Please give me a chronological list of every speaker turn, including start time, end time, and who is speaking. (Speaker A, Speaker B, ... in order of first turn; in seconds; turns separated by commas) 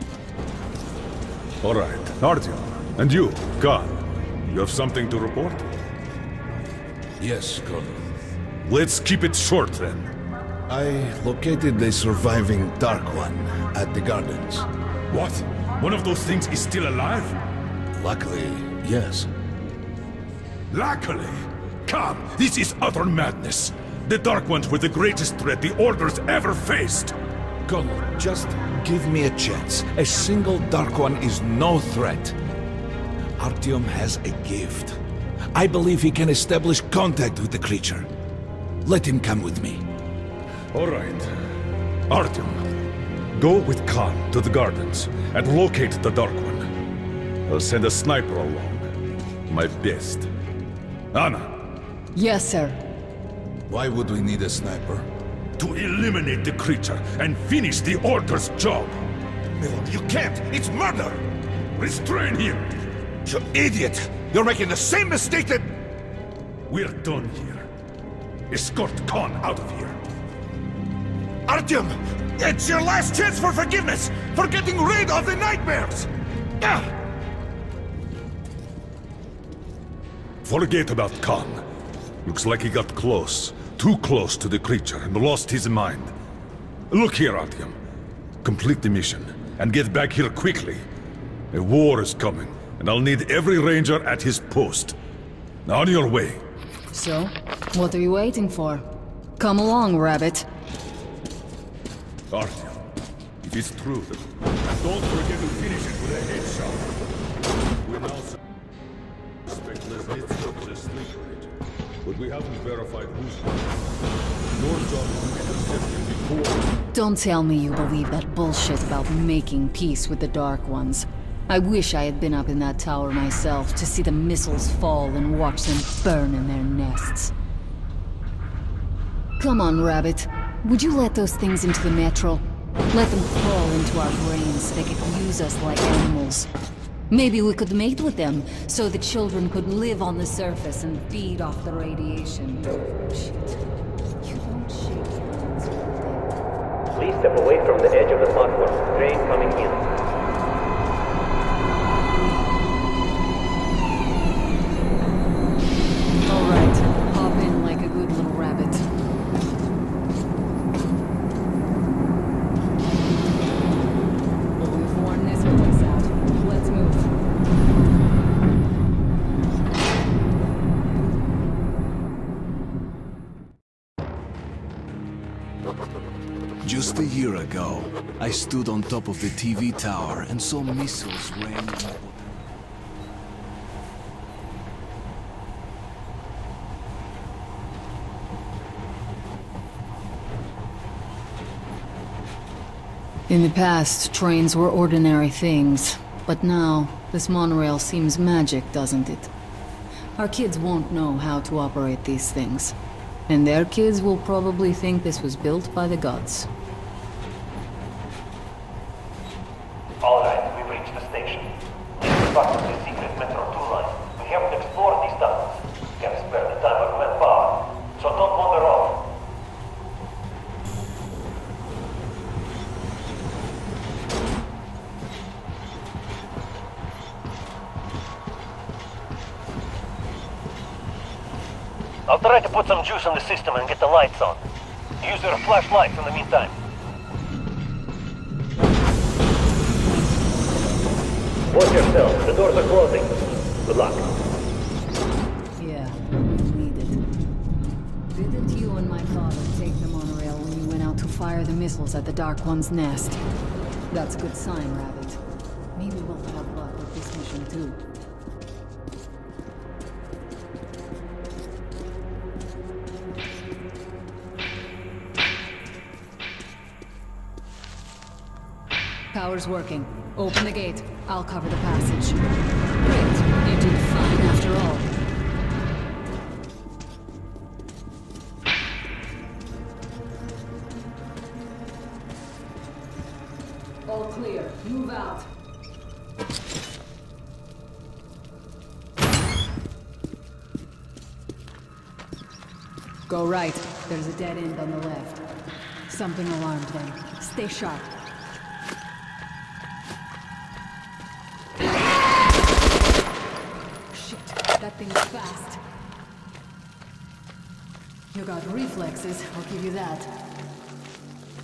Speaker A: 1.6-5.8, Speaker B: 7.2-8.0, Speaker A: 8.6-10.1, Speaker B: 10.7-14.7, Speaker A: 15.1-17.4, Speaker B: 17.9-19.3, Speaker A: 20.7-27.1, Speaker B: 27.7-32.4, Speaker B: 33.4-35.0, Speaker B: 35.5-38.1, Speaker B: 38.8-39.8, Speaker A: 40.7-41.4, Speaker A: 42.1-42.6, Speaker A: 43.3-46.7, Speaker A: 47.5-48.9, Speaker A: 49.5-50.3, Speaker A: 51.1-51.7, Speaker C: 52.1-52.8, Speaker B: 53.7-55.1, Speaker A: 55.6-59.0, Speaker B: 59.6-61.2, Speaker A: 61.8-62.8, Speaker B: 63.2-65.7, Speaker A: 66.7-67.7, Speaker A: 68.5-70.0, Speaker B: 71.5-76.1, Speaker A: 80.4-81.6, Speaker A: 82.2-86.1, Speaker A: 86.9-87.7, Speaker A: 88.4-90.8, Speaker A: 91.5-95.0, Speaker A: 95.7-96.4, Speaker C: 96.9-98.8, Speaker C: 99.4-100.5, Speaker A: 102.3-102.8, Speaker A: 103.4-106.9, Speaker A: 107.8-108.4, Speaker A: 109.5-111.5, Speaker A: 112.0-113.8, Speaker A: 114.5-116.7, Speaker C: 116.9-127.3, Speaker C: 129.4-136.5, Speaker C: 137.1-143.6, Speaker C: 144.2-146.3, Speaker D: 146.9-149.9, Speaker C: 156.2-158.9, Speaker C: 164.6-167.2, Speaker E: 176.6-182.2, Speaker C: 193.3-199.3, Speaker C: 200.2-202.7, Speaker C: 203.3-206.5, Speaker D: 210.0-219.1, Speaker D: 232.1-234.4, Speaker D: 235.0-236.5, Speaker D: 241.5-243.1, Speaker D: 243.7-244.1, Speaker C: 245.6-247.0, Speaker C: 248.1-253.2, Speaker C: 253.9-255.2, Speaker C: 255.7-257.8, Speaker C: 269.1-274.9, Speaker C: 283.9-285.3, Speaker C: 293.1-295.2, Speaker C: 295.9-297.9, Speaker C: 303.9-305.6, Speaker C: 308.1-310.2